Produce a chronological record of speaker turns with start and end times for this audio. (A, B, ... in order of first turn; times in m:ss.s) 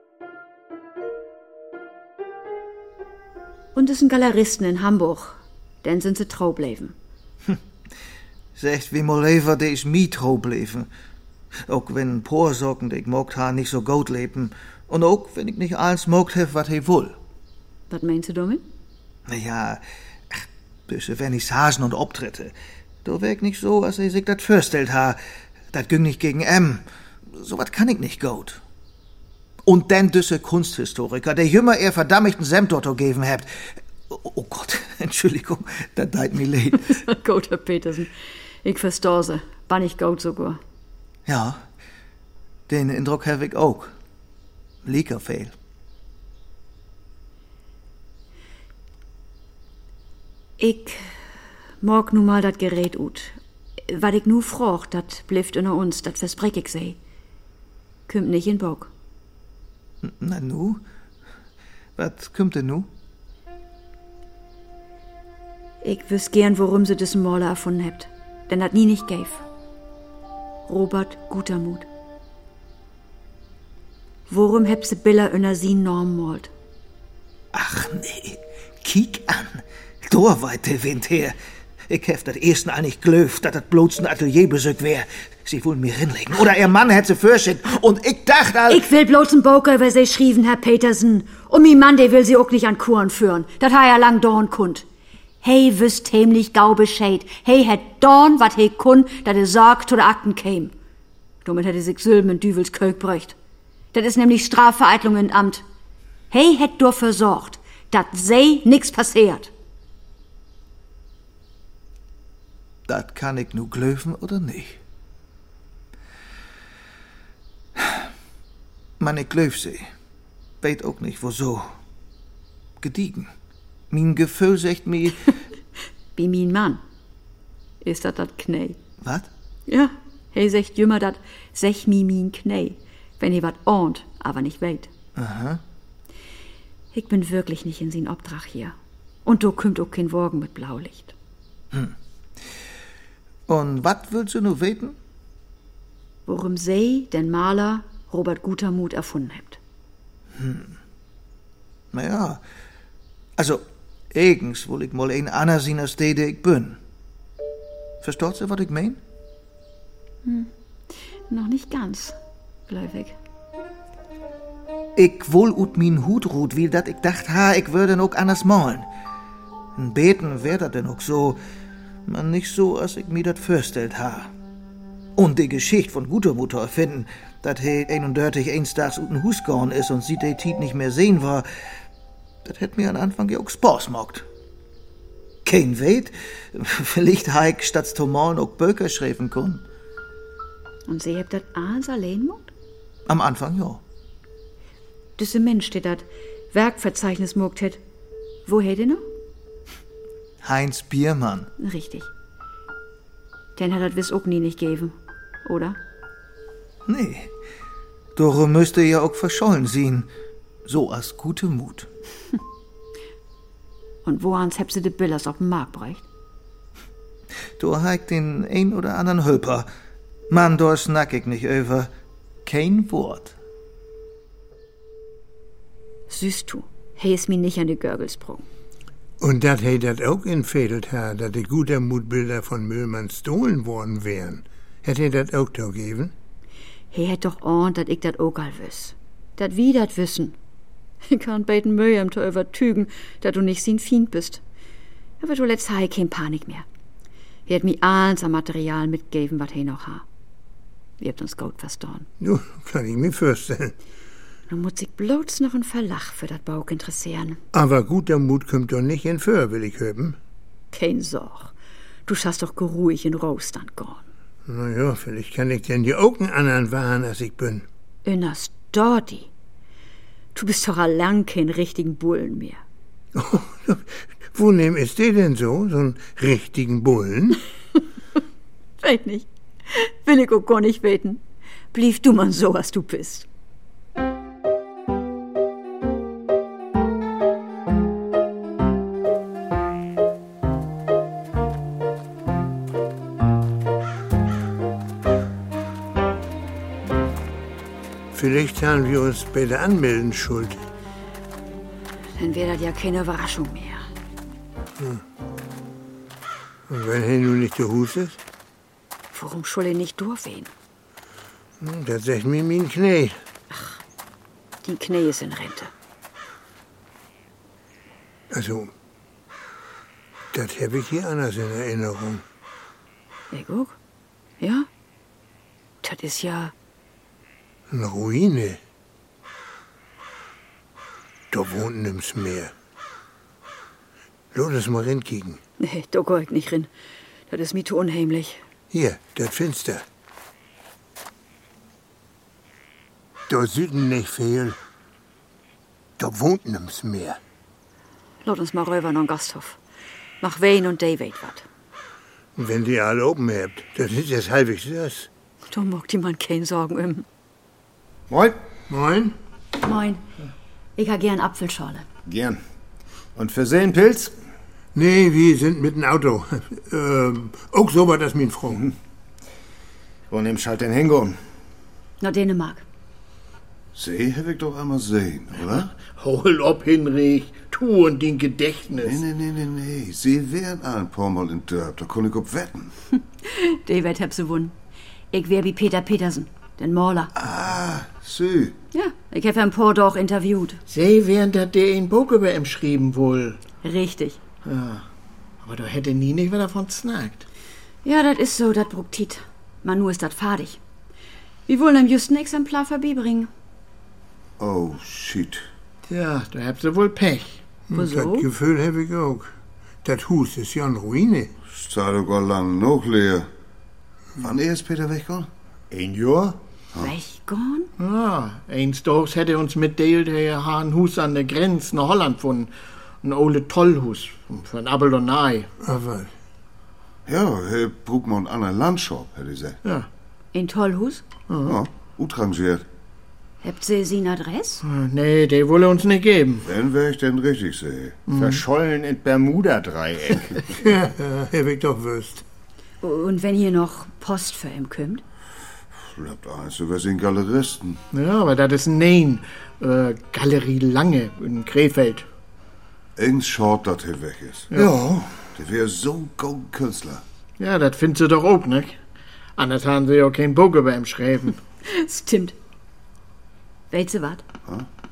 0:03.7-0:06.9 A
0:08.6-0:10.9 B
0:11.7-0:17.2 B
0:17.9-0:18.6 A
0:19.3-0:22.5 B
0:23.0-0:25.2 B
0:25.7-0:26.8 B
0:27.3-0:28.6 B
0:29.6-0:37.0 B
0:36.9-0:38.1 A
0:38.6-0:40.6 A
0:41.2-0:41.6 B
0:42.7-0:43.9 B
0:44.8-0:45.5 B
0:50.6-0:51.1 A
0:51.8-0:57.0 A
0:58.1-0:58.9 A
1:00.0-1:00.8 B
1:02.0-1:02.9 B
1:05.8-1:09.4 A
1:10.7-1:11.8 A
1:14.3-1:16.5 A
1:17.5-1:21.4 B
1:21.9-1:28.9 B
1:28.7-1:34.8 A
1:35.4-1:40.7 A
1:41.4-1:43.4 A
1:43.9-1:45.6 A
1:46.3-1:49.5 A
1:52.9-1:54.8 B
1:59.0-1:59.9 B
2:00.6-2:01.7 B
2:02.8-2:03.3 B
2:03.9-2:05.3 B
2:06.1-2:06.8 A
2:07.8-2:08.8 A
2:09.0-2:09.3 B
2:09.7-2:14.9 A
2:15.2-2:15.6 B
2:16.9-2:21.1 A
2:23.5-2:25.0 B
2:26.2-2:29.6 A
2:30.4-2:30.8 B
2:31.9-2:32.4 B
2:33.4-2:33.6 B
2:34.1-2:36.8 B
2:38.0-2:39.0 B
2:40.2-2:40.5 A
2:41.3-2:42.2 A
2:42.7-2:43.2 A
2:45.0-2:48.9 B
2:49.8-2:51.4 B
2:52.1-2:54.3 B
2:55.2-3:01.4 B
3:02.4-3:04.2 B
3:05.4-3:09.6 B
3:10.9-3:12.5 A
3:13.1-3:13.8 B
3:15.2-3:17.8 A
3:18.4-3:19.0 A
3:20.4-3:21.5 B
3:21.6-3:22.1 A
3:23.6-3:25.8 A
3:26.8-3:27.3 B
3:28.2-3:30.1 B
3:30.7-3:31.9 B
3:34.0-3:36.0 A
3:37.6-3:39.7 B
3:40.3-3:41.9 B
3:42.4-3:43.3 B
3:46.1-3:48.4 A
3:49.2-3:56.1 C
3:56.9-4:00.4 A
4:01.0-4:04.4 A
4:05.2-4:06.6 A
4:07.5-4:10.0 A
4:11.0-4:12.1 A
4:12.2-4:13.7 C
4:14.5-4:17.4 A
4:17.5-4:20.2 C
4:20.7-4:21.5 A
4:22.0-4:24.0 A
4:24.4-4:27.6 C
4:28.0-4:29.3 A
4:30.3-4:32.6 A
4:33.1-4:37.4 C
4:38.8-4:41.2 A
4:41.7-4:43.3 A
4:58.1-5:00.6 C
5:02.2-5:03.8 A
5:06.7-5:08.2 C
5:09.1-5:10.5 A
5:11.6-5:13.2 C
5:13.5-5:13.8 A
5:14.6-5:15.7 A
5:18.3-5:18.7 C
5:20.3-5:22.2 C
5:23.3-5:23.8 A
5:24.4-5:24.7 A
5:25.8-5:26.5 A
5:27.7-5:28.6 C
5:31.3-5:32.5 C
5:34.3-5:35.4 C
5:35.6-5:36.7 A
5:37.3-5:38.4 A
5:38.7-5:39.8 C
5:43.3-5:44.6 C
5:46.0-5:47.2 C
5:48.2-5:49.6 A
5:50.2-5:51.4 A
5:52.4-5:55.1 C
5:55.5-5:57.0 A
5:58.1-5:58.4 D
5:58.7-5:59.1 C
5:59.6-6:00.0 A
6:00.8-6:01.8 A
6:02.0-6:02.4 D
6:03.2-6:04.1 D
6:04.7-6:08.7 C
6:10.1-6:11.2 D
6:12.0-6:12.6 A
6:13.7-6:15.7 E
6:15.7-6:19.0 F
6:18.8-6:22.7 E
6:23.2-6:24.5 A
6:25.1-6:27.1 A
6:27.2-6:28.6 E
6:28.7-6:30.6 A
6:30.7-6:33.4 F
6:33.6-6:34.2 A
6:34.4-6:34.8 F
6:35.4-6:37.2 F
6:37.8-6:40.6 A
6:41.5-6:43.3 A
6:44.4-6:45.4 E
6:45.9-6:47.4 F
6:47.7-6:49.3 C
6:47.7-6:48.3 A
6:49.8-6:51.3 C
6:51.4-6:53.3 E
6:54.2-6:55.3 E
6:55.7-6:56.4 D
6:56.8-6:57.7 A
6:57.8-7:02.5 F
7:03.0-7:05.5 F
7:05.6-7:06.1 C
7:07.0-7:09.6 E
7:10.3-7:11.0 A
7:11.3-7:11.6 F
7:11.4-7:12.6 E
7:13.4-7:14.6 A
7:14.6-7:16.4 F
7:16.4-7:18.0 E
7:18.1-7:18.4 F
7:18.1-7:20.3 D
7:20.6-7:22.2 C
7:22.8-7:25.0 A
7:25.8-7:27.8 E
7:27.9-7:32.0 F
7:33.0-7:34.5 E
7:34.5-7:34.8 F
7:35.3-7:37.0 E
7:37.4-7:38.8 F
7:39.4-7:41.4 F
7:41.6-7:42.3 A
7:43.7-7:44.2 A